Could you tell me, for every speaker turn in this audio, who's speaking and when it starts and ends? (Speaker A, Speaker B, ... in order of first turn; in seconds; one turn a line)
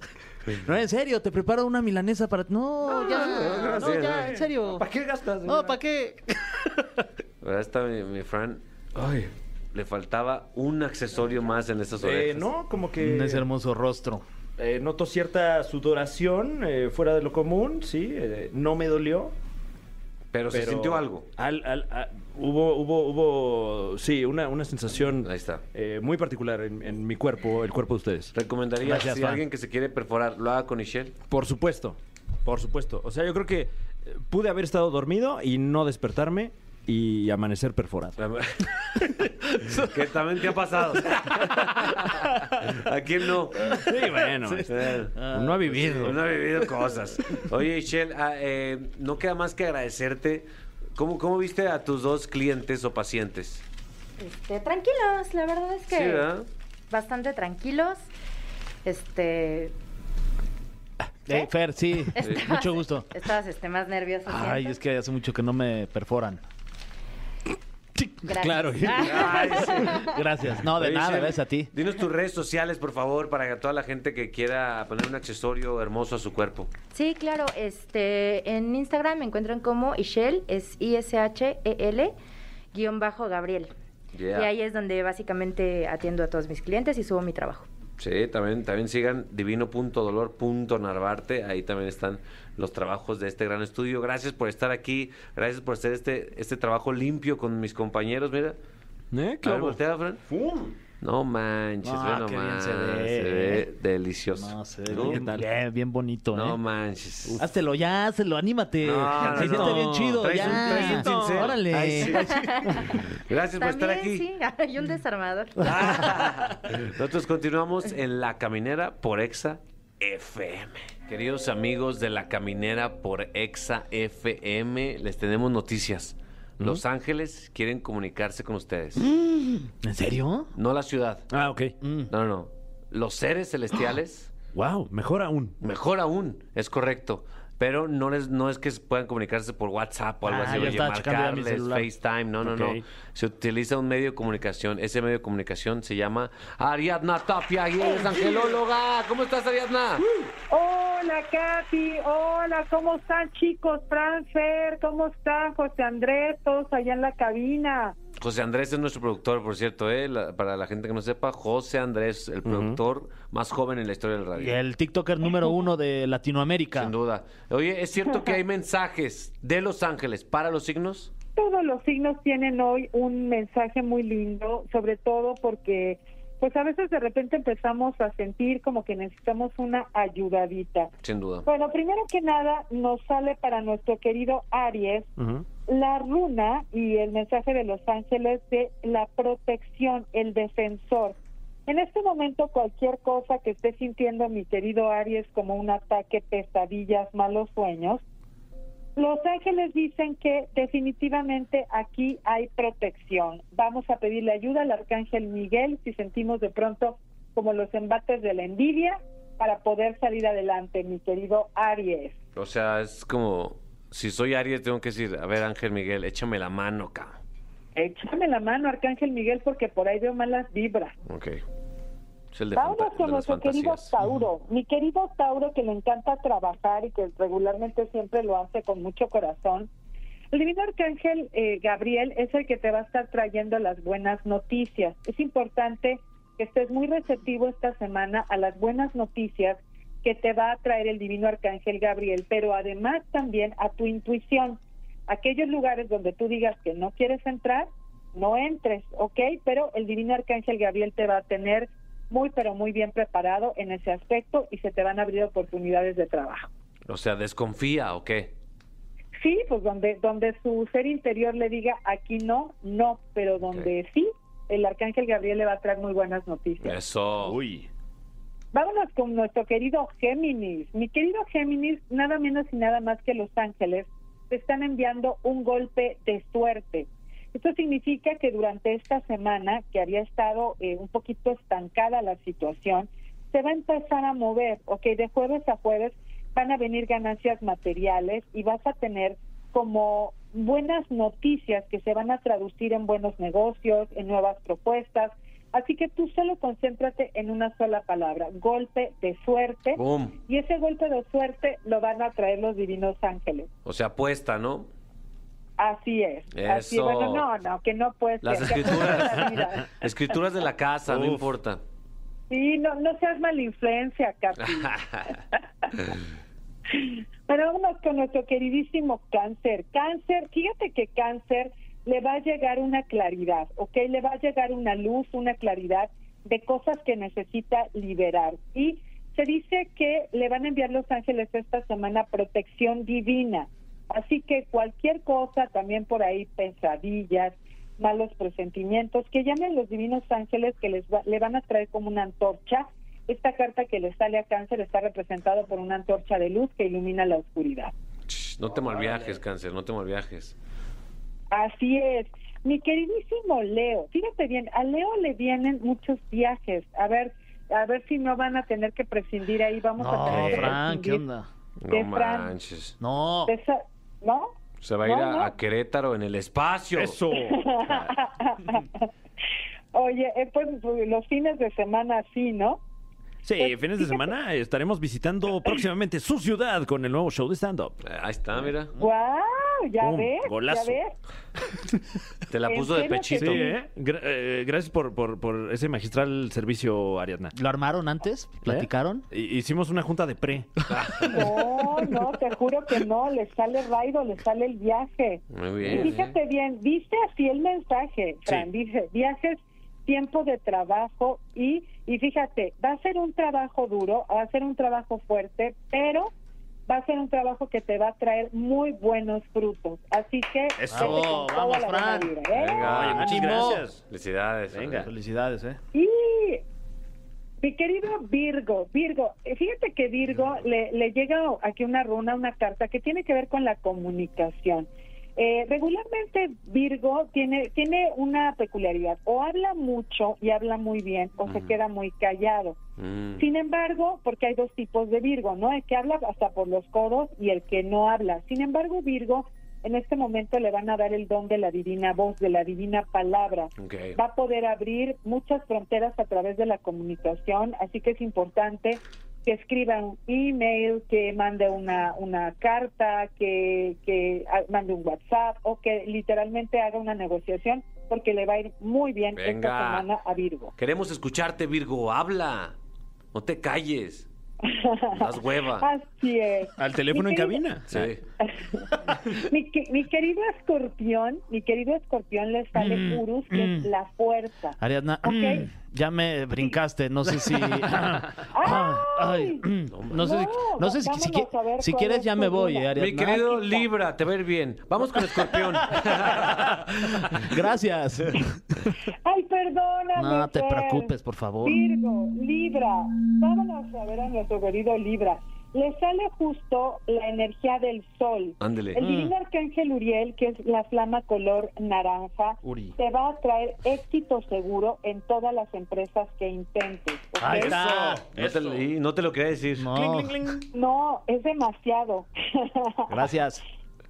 Speaker A: 0.6-4.8
Speaker B: 2.9-5.8
Speaker C: 2.9-4.4
Speaker A: 5.5-6.4
Speaker C: 7.4-8.6
Speaker B: 8.9-9.3
Speaker C: 9.7-12.5
Speaker B: 12.0-13.5
Speaker A: 13.0-14.2
Speaker B: 14.6-19.3
Speaker C: 20.3-21.3
Speaker B: 20.5-28.3
Speaker C: 25.2-25.6
Speaker C: 28.3-31.1
Speaker A: 28.8-29.4
Speaker B: 31.3-38.2
Speaker C: 38.2-39.2
Speaker C: 39.7-43.9
Speaker B: 41.3-42.3
Speaker B: 43.7-46.2
Speaker A: 44.5-46.1
Speaker C: 44.6-45.1
Speaker C: 45.7-53.6
Speaker D: 54.2-56.3
Speaker C: 55.9-56.5
Speaker D: 56.9-58.1
Speaker D: 58.9-59.7
Speaker A: 61.3-63.1
Speaker D: 62.1-64.8
Speaker C: 62.2-62.5
Speaker A: 64.3-66.4
Speaker B: 68.2-70.0
Speaker D: 68.3-70.1
Speaker C: 69.0-70.0
Speaker A: 70.0-71.7
Speaker C: 70.8-76.7
Speaker D: 76.9-82.2
Speaker D: 82.7-83.7
Speaker C: 84.1-84.5
Speaker D: 84.3-87.7
Speaker C: 88.0-98.6
Speaker B: 99.1-100.8
Speaker C: 99.4-100.2
Speaker C: 101.0-105.2
Speaker A: 101.8-103.7
Speaker A: 104.3-106.6
Speaker B: 104.9-105.5
Speaker C: 106.3-107.4
Speaker A: 107.4-112.2
Speaker C: 108.8-114.3
Speaker B: 109.1-113.0
Speaker D: 112.1-112.9
Speaker D: 113.6-116.0
Speaker C: 115.6-129.1
Speaker A: 129.0-130.5
Speaker C: 130.6-131.3
Speaker B: 131.3-131.7
Speaker A: 131.8-132.1
Speaker C: 132.1-134.3
Speaker B: 134.5-135.6
Speaker C: 135.6-150.1
Speaker A: 140.3-141.9
Speaker B: 142.5-142.8
Speaker B: 148.2-148.5
Speaker B: 150.0-150.3
Speaker E: 150.5-158.0
Speaker C: 158.2-164.6
Speaker B: 162.4-162.8
Speaker A: 164.4-166.9
Speaker C: 166.8-171.1
Speaker E: 171.4-180.9
Speaker C: 181.0-181.5
Speaker E: 181.5-185.1
Speaker B: 185.2-185.4
Speaker E: 185.7-198.0
Speaker E: 199.0-212.2
Speaker C: 212.4-217.2
Speaker E: 217.8-220.9
Speaker C: 221.1-221.4
Speaker C: 222.3-223.9
Speaker E: 222.6-229.7
Speaker E: 230.3-256.5
Speaker C: 256.9-258.3
Speaker E: 259.2-266.8
Speaker C: 266.6-267.4
Speaker B: 267.2-267.7
Speaker E: 268.5-303.5
Speaker C: 299.8-300.2
Speaker C: 303.6-304.7
Speaker E: 305.6-309.9
Speaker C: 306.3-307.3
Speaker C: 308.2-311.6
Speaker B: 310.9-311.3
Speaker E: 312.3-314.7
Speaker C: 314.5-315.2
Speaker E: 315.4-315.9
Speaker E: 316.7-347.7
Speaker C: 348.1-350.3
Speaker E: 351.3-361.0
Speaker A: 359.8-361.3
Speaker B: 360.1-360.6
Speaker C: 361.6-362.8
Speaker E: 361.7-362.3
Speaker A: 362.8-363.3
Speaker E: 363.3-365.3
Speaker C: 364.6-367.0
Speaker B: 366.8-367.4
Speaker E: 367.2-368.9
Speaker C: 367.7-367.9
Speaker E: 369.7-372.6
Speaker B: 373.2-377.8
Speaker E: 373.4-374.1
Speaker C: 377.8-378.7
Speaker E: 378.8-380.9
Speaker B: 379.8-380.8
Speaker C: 382.3-383.5
Speaker E: 382.5-383.6
Speaker B: 383.2-387.3
Speaker A: 387.4-389.1
Speaker B: 388.4-391.3
Speaker C: 390.7-391.2
Speaker E: 391.0-406.1
Speaker C: 395.3-396.1
Speaker B: 395.6-396.0
Speaker E: 406.7-412.6
Speaker B: 410.6-411.1
Speaker A: 410.7-412.1
Speaker C: 412.3-414.9
Speaker B: 412.6-413.8
Speaker A: 412.7-413.7
Speaker B: 414.5-414.9
Speaker A: 414.9-415.6
Speaker E: 415.7-416.4
Speaker E: 417.4-432.6
Speaker C: 431.3-431.6
Speaker C: 432.8-433.2
Speaker E: 433.2-460.5
Speaker C: 443.6-444.0
Speaker C: 459.2-459.9
Speaker C: 460.6-462.6
Speaker C: 463.1-464.1
Speaker E: 464.4-467.4
Speaker C: 465.0-465.7
Speaker B: 466.6-467.9
Speaker C: 467.7-468.0
Speaker E: 468.2-475.5
Speaker A: 472.6-473.7
Speaker A: 474.6-483.3
Speaker E: 478.3-483.7
Speaker C: 479.7-480.2
Speaker C: 482.8-486.7
Speaker A: 485.7-488.7
Speaker E: 489.1-507.6
Speaker A: 490.0-491.6
Speaker C: 498.4-498.8
Speaker A: 498.8-499.1
Speaker A: 502.4-502.8
Speaker A: 507.2-508.1
Speaker C: 507.3-509.7
Speaker B: 508.1-508.4
Speaker A: 509.6-510.4
Speaker B: 509.7-510.5
Speaker E: 510.5-513.0
Speaker A: 512.9-513.4